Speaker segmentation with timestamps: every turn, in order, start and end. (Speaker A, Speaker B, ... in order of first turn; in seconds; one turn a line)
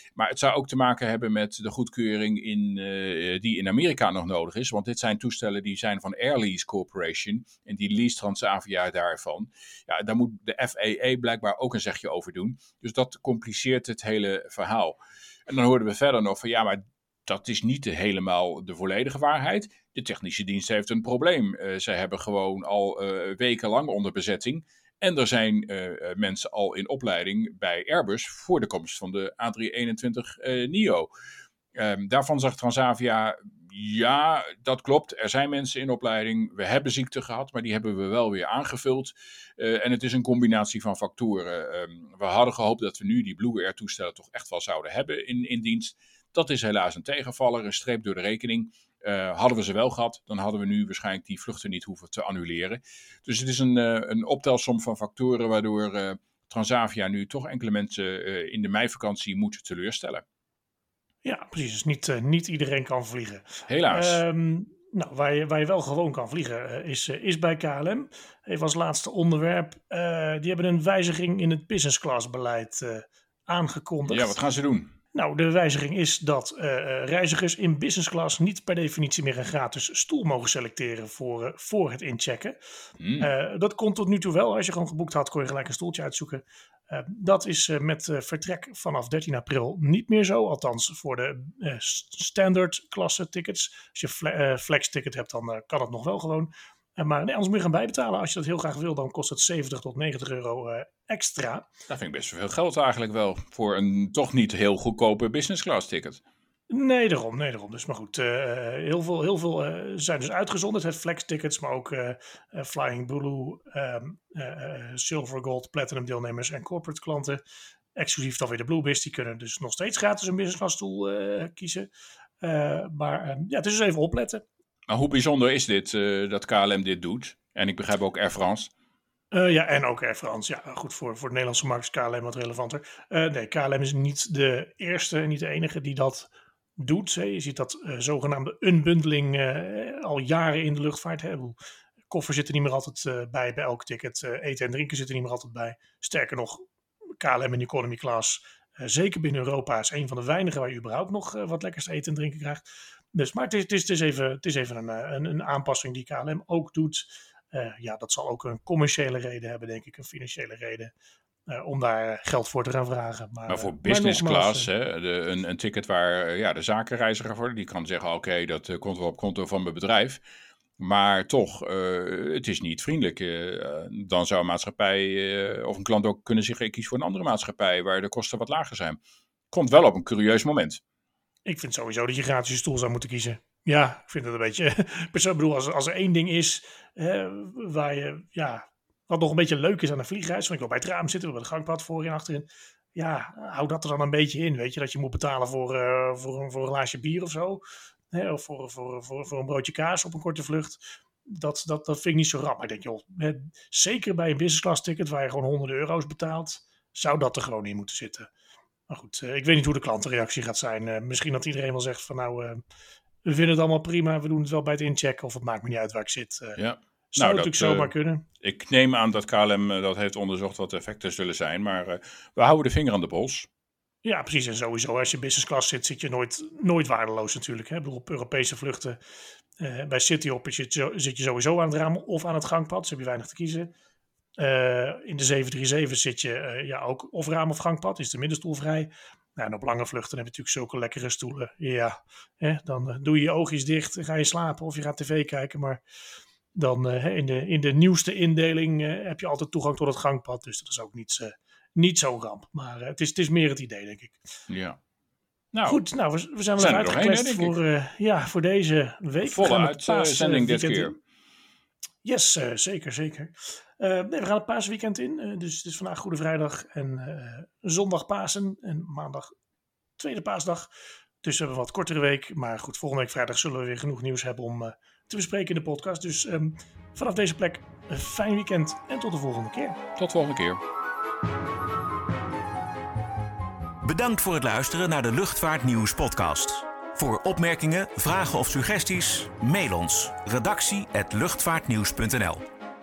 Speaker A: 0.2-31.1
Speaker A: 31.8-60.2
Speaker B: 61.2-74.4
Speaker A: 63.7-64.2
Speaker A: 74.1-74.9
Speaker B: 75.1-82.6
Speaker A: 83.0-83.3
Speaker B: 83.2-101.7
Speaker A: 101.9-106.2
Speaker B: 106.7-117.4
Speaker B: 118.0-121.9
Speaker B: 122.4-124.4
Speaker A: 124.9-128.7
Speaker B: 129.3-141.6
Speaker B: 142.1-146.6
Speaker B: 147.2-152.6
Speaker B: 153.1-160.9
Speaker B: 161.5-164.7
Speaker A: 163.5-170.2
Speaker A: 170.8-179.0
Speaker A: 179.5-180.8
Speaker B: 181.5-208.3
Speaker B: 208.9-212.6
Speaker B: 213.2-216.6
Speaker A: 216.6-223.5
Speaker B: 217.1-218.2
Speaker B: 224.0-229.0
Speaker B: 229.6-233.7
Speaker B: 234.4-245.8
Speaker B: 246.6-254.2
Speaker A: 254.5-254.8
Speaker A: 255.5-255.8
Speaker B: 255.7-260.9
Speaker A: 256.6-257.6
Speaker A: 259.2-261.0
Speaker B: 262.0-269.3
Speaker B: 270.0-270.7
Speaker B: 271.2-279.8
Speaker A: 280.0-280.6
Speaker C: 283.8-292.4